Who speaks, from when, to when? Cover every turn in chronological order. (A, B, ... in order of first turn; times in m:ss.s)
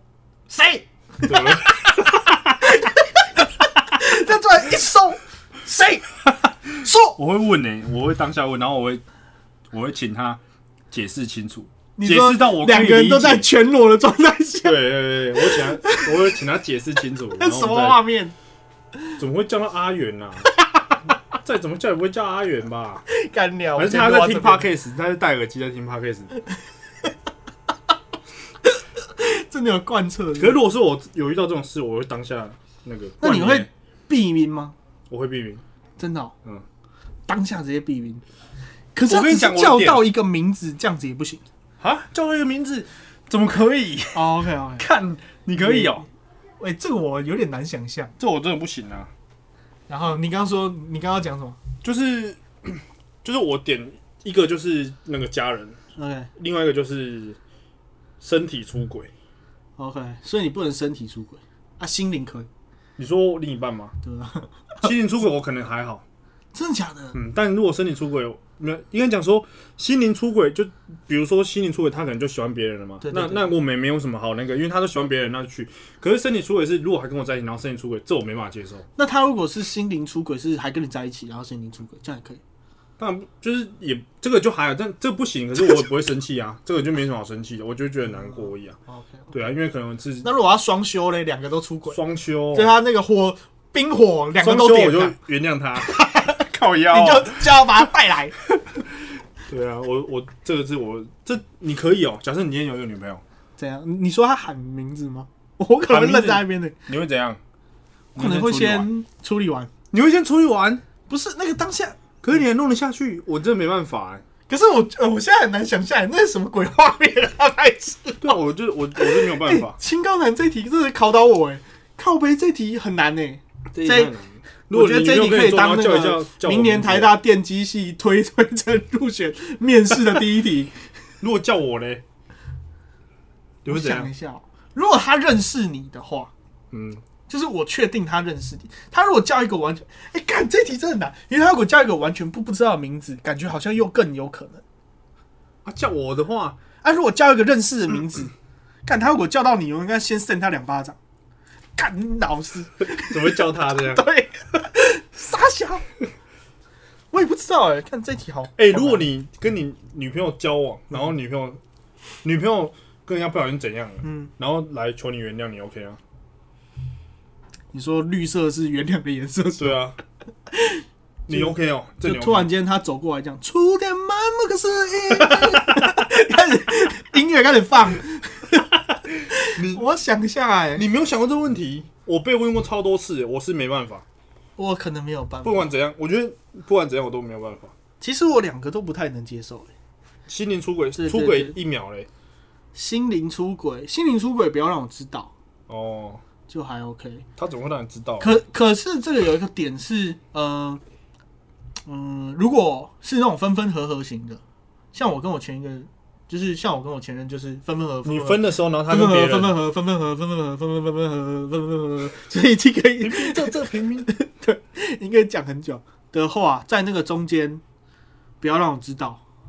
0:00.5-0:06.1 A
0:01.2-0:02.3 B
0:06.7-0:07.2 A
0:07.1-0:09.0 B
0:09.7-0:10.4 B
0:10.9-0:13.5 B
0:12.0-0:14.8 A
0:14.6-0:18.0 B
0:15.4-0:16.2 A
0:17.4-0:18.4 A
0:19.2-0:20.5 B
0:21.4-0:23.1 B
0:23.1-0:24.7 A
0:23.8-0:26.3 B
0:28.6-0:30.6 A
0:30.4-0:33.7 B
0:33.2-0:34.8 A
0:35.1-0:35.6 B
0:36.0-0:36.3 A
0:37.3-0:38.2 A
0:38.9-0:41.4 A
0:39.1-0:40.1 B
0:41.8-0:46.1 B
0:44.1-0:44.9 A
0:45.6-0:46.0 A
0:46.6-0:48.1 A
0:48.2-0:49.1 B
0:49.9-0:51.6 A
0:51.8-0:55.8 B
0:56.0-0:56.3 A
0:56.4-0:57.4 B
0:58.2-0:59.1 B
0:59.8-1:02.5 A
1:03.0-1:04.0 B
1:04.0-1:04.9 A
1:04.8-1:06.0 B
1:06.5-1:07.2 A
1:07.1-1:18.9 B
1:13.0-1:13.5 A
1:19.0-1:22.4 A
1:23.0-1:28.8 B
1:29.3-1:30.3 B
1:30.2-1:32.0 A
1:31.9-1:32.8 B
1:32.5-1:35.2 A
1:34.4-1:37.5 B
1:35.8-1:38.4 A
1:39.5-1:43.2 B
1:43.6-1:46.8 A
1:45.9-1:47.4 B
1:48.2-1:48.9 B
1:48.2-1:49.7 A
1:49.9-1:50.8 B
1:51.1-1:52.0 A
1:52.2-1:54.2 B
1:54.5-1:58.4 A
1:58.2-1:59.8 B
1:59.0-2:04.1 A
2:03.7-2:07.2 B
2:04.7-2:10.8 A
2:11.2-2:12.0 B
2:13.6-2:14.1 B
2:13.7-2:16.3 A
2:16.7-2:17.0 B
2:17.3-2:24.6 A
2:25.6-2:26.6 B
2:26.8-2:28.3 A
2:28.8-2:31.0 A
2:31.8-2:35.8 A
2:32.8-2:34.0 B
2:37.1-2:39.1 A
2:38.6-2:41.6 B
2:42.2-2:46.0 B
2:44.0-2:44.3 A
2:47.7-2:49.8 A
2:49.6-2:50.0 B
2:50.5-2:58.7 A
2:51.3-2:52.5 B
2:55.3-2:55.9 B
2:59.3-3:00.8 A
2:59.5-2:59.8 B
3:00.8-3:04.0 B
3:04.6-3:05.7 A
3:05.4-3:07.7 B
3:08.0-3:09.7 A
3:10.3-3:12.1 B
3:11.0-3:11.6 A
3:12.7-3:15.3 A
3:15.7-3:16.2 B
3:16.5-3:17.3 A
3:17.4-3:18.4 B
3:18.2-3:20.8 A
3:21.9-3:24.4 A
3:24.9-3:37.6 A
3:28.0-3:29.6 B
3:33.0-3:34.1 B
3:38.4-3:39.2 A